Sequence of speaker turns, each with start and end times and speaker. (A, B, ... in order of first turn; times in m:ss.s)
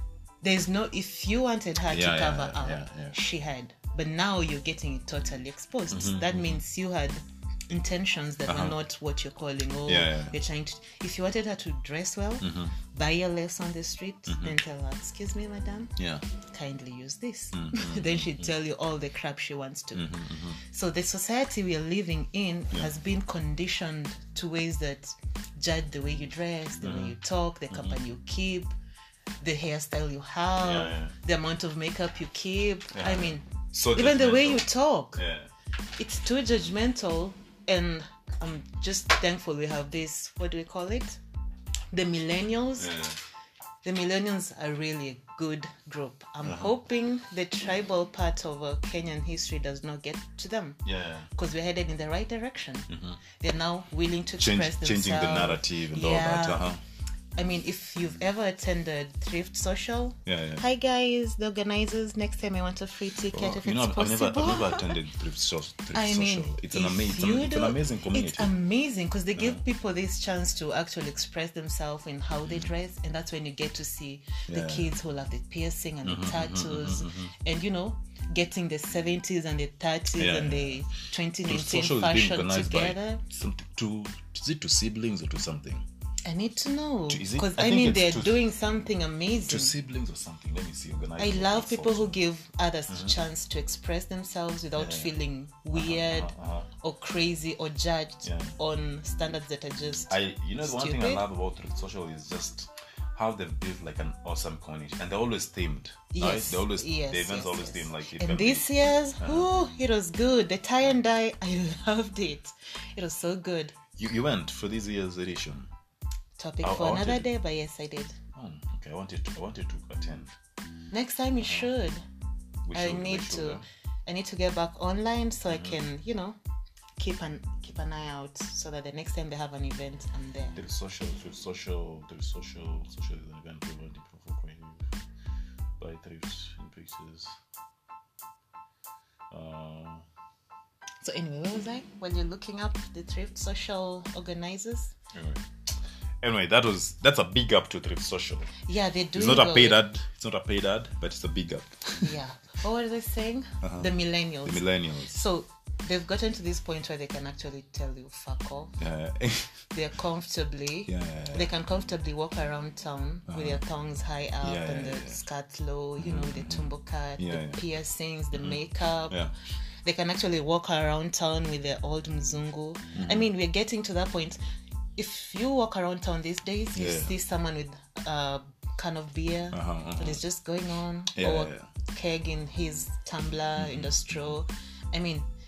0:00.4-0:15.9 A
0:01.9-0:03.2 B
0:05.9-0:06.6 B
0:08.4-0:08.8 B
0:09.8-0:10.4 B
0:12.4-0:12.7 B
0:14.3-0:14.6 B
0:16.0-0:16.2 B
0:16.5-0:20.1 A
0:17.5-0:18.5 B
0:19.9-0:20.6 B
0:20.6-0:28.7 A
0:26.8-0:27.2 B
0:27.7-0:28.0 B
0:29.4-0:35.2 A
0:30.6-0:31.1 B
0:32.9-0:35.5 B
0:36.0-0:41.2 A
0:41.9-0:43.0 A
0:42.8-0:43.2 B
0:43.8-0:50.8 A
0:46.4-0:46.7 B
0:50.8-0:51.3 B
0:51.3-0:56.6 A
0:52.9-0:53.2 B
0:54.4-0:56.8 B
0:57.4-1:05.0 A
1:00.2-1:00.6 B
1:03.3-1:08.5 B
1:05.9-1:23.2 A
1:09.4-1:09.6 B
1:12.4-1:12.7 B
1:14.5-1:14.9 B
1:16.0-1:17.3 B
1:20.2-1:20.9 B
1:21.4-1:25.8 B
1:26.2-1:29.7 A
1:27.1-1:28.4 B
1:29.4-1:32.2 B
1:31.2-1:41.2 A
1:32.9-1:33.2 B
1:34.8-1:35.1 B
1:35.7-1:36.7 B
1:38.2-1:38.6 B
1:40.1-1:48.7 B
1:46.1-1:53.8 A
1:49.2-1:49.5 B
1:54.0-1:55.7 B
1:56.4-1:58.2 A
1:56.6-1:57.3 B
1:58.3-2:00.3 B
2:00.9-2:02.0 A
2:01.4-2:01.7 B
2:02.6-2:03.6 B
2:02.7-2:06.4 A
2:05.5-2:05.8 B
2:07.0-2:10.6 A
2:10.6-2:14.8 B
2:15.8-2:17.4 B
2:19.3-2:20.0 B
2:21.0-2:24.9 A
2:25.1-2:25.4 B
2:26.2-2:28.5 B
2:28.6-2:29.8 A
2:29.1-2:32.1 B
2:32.0-2:38.8 A
2:33.6-2:33.9 B
2:34.4-2:35.2 B
2:38.8-2:39.6 B
2:39.7-2:49.2 A
2:40.9-2:41.5 B
2:43.3-2:43.6 B
2:44.4-2:45.2 B
2:46.0-2:47.6 B
2:48.3-2:49.3 B
2:49.8-2:54.4 A
2:52.9-2:53.3 B
2:55.0-3:05.2 A
2:56.7-2:57.1 B
2:59.5-3:00.2 B
3:01.1-3:01.7 B
3:03.6-3:04.4 B